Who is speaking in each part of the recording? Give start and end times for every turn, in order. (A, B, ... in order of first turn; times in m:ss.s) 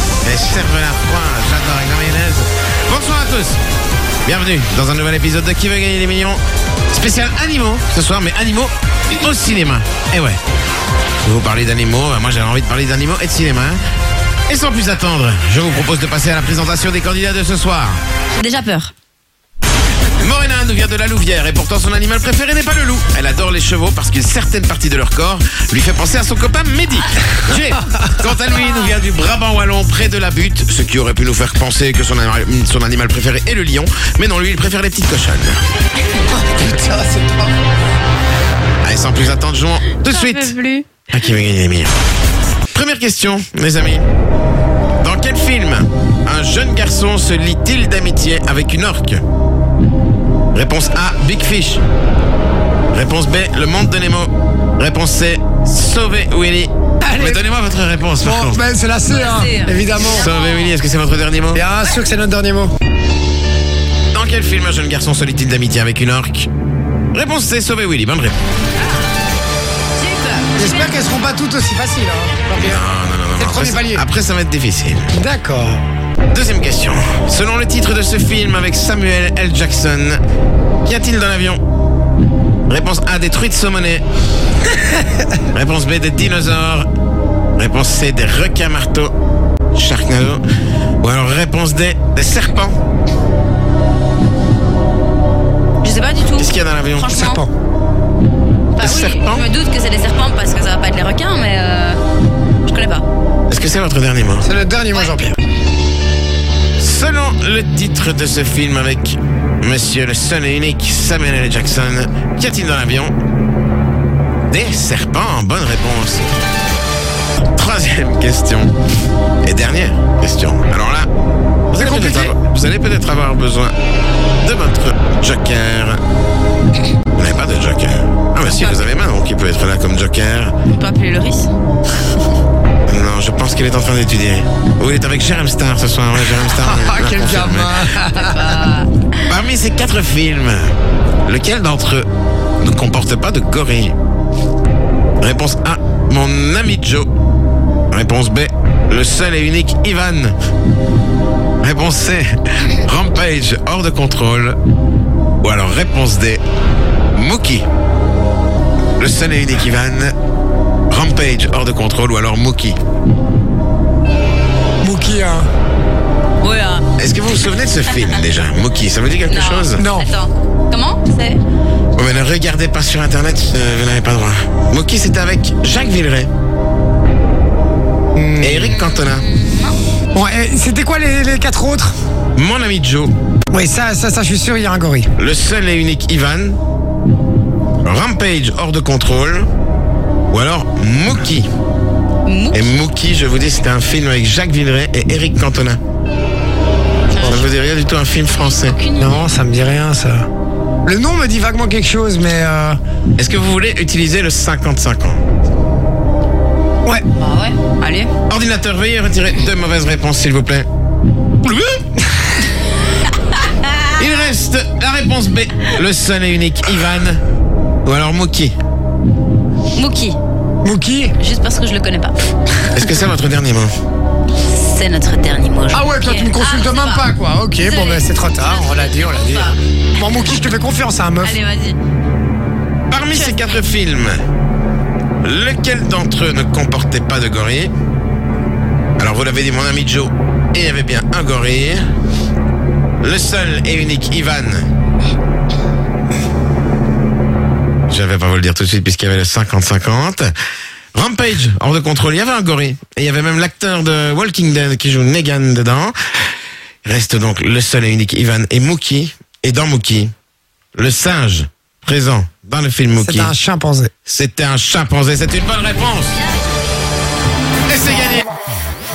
0:00.2-0:03.6 A
0:04.3-0:06.4 A
0:06.9-0:10.4 A
0:11.2-0:13.8 A
0:14.5-0:18.0 A
0:18.3-0:18.9 B
0:20.2-0:35.6 A
0:36.2-0:37.6 C
0:38.8-0:40.5 A
0:39.9-0:40.9 B
0:41.1-0:41.9 A
0:42.7-0:44.1 A
0:45.0-0:49.2 A
0:50.5-0:51.8 A
0:52.9-0:58.6 A
0:57.0-0:57.4 C
0:58.2-1:00.3 C
0:59.1-1:00.8 B
1:00.2-1:01.6 A
1:01.5-1:02.7 C
1:04.1-1:06.5 A
1:07.1-1:08.4 A
1:08.8-1:09.1 B
1:10.0-1:11.0 B
1:10.6-1:14.0 C
1:12.5-1:15.1 A
1:15.1-1:15.8 C
1:16.3-1:20.2 A
1:20.8-1:21.6 A
1:22.7-1:24.0 A
1:25.5-1:26.9 A
1:27.6-1:29.1 A
1:29.7-1:30.4 A
1:31.0-1:32.8 A
1:35.8-1:37.4 B
1:36.4-1:37.1 A
1:37.1-1:37.5 C
1:38.8-1:42.0 B
1:38.8-1:39.4 A
1:42.7-1:43.0 B
1:43.5-1:44.5 A
1:44.4-1:45.4 C
1:46.8-1:53.1 A
1:54.5-1:56.4 A
1:57.6-1:58.7 A
1:59.4-2:01.1 A
2:01.7-2:03.7 A
2:01.8-2:02.4 C
2:04.4-2:06.0 A
2:07.2-2:10.6 A
2:08.4-2:08.8 B
2:10.7-2:11.5 B
2:12.9-2:18.0 A
2:16.2-2:18.7 C
2:18.1-2:19.1 B
2:19.3-2:20.7 A
2:21.3-2:22.1 A
2:22.6-2:24.0 A
2:25.2-2:27.1 A
2:27.9-2:30.4 A
2:31.6-2:34.6 A
2:35.4-2:36.4 A
2:37.1-2:37.7 A
2:39.0-2:40.1 A
2:40.9-2:42.8 A
2:44.8-2:45.5 C
2:46.4-2:46.9 B
2:47.0-2:49.8 A
2:49.3-2:51.4 B
2:49.8-2:50.1 C
2:52.0-2:56.3 A
2:58.2-2:58.8 C
2:58.4-2:59.2 A
2:58.7-2:59.8 B
3:00.1-3:01.9 C
3:02.4-3:03.1 A
3:03.5-3:05.1 C
3:05.2-3:06.6 A
3:07.8-3:09.5 A
3:10.3-3:11.5 A
3:12.3-3:12.7 B
3:12.5-3:15.8 A
3:17.1-3:17.5 B
3:17.2-3:18.8 A
3:18.3-3:19.3 B
3:19.0-3:20.3 C
3:20.8-3:22.8 C
3:23.2-3:25.2 A
3:27.2-3:28.1 B
3:28.3-3:30.7 A
3:31.4-3:31.8 A
3:33.4-3:33.9 B
3:34.0-3:37.2 A
3:37.8-3:38.5 A
3:39.8-3:40.2 B
3:40.6-3:41.2 C
3:41.2-3:42.2 B
3:42.7-3:43.7 A
3:44.5-3:47.0 B
3:45.7-3:51.4 C
3:47.6-3:49.6 B
3:51.2-3:51.8 B
3:52.9-3:54.2 A
3:53.1-3:53.6 B
3:55.2-3:57.7 A
3:59.0-4:01.8 A
4:03.0-4:04.6 A
4:07.9-4:10.3 A
4:11.0-4:16.0 A
4:16.8-4:20.1 A
4:20.8-4:23.4 A
4:23.0-4:23.9 C
4:24.1-4:26.1 A
4:27.7-4:28.3 A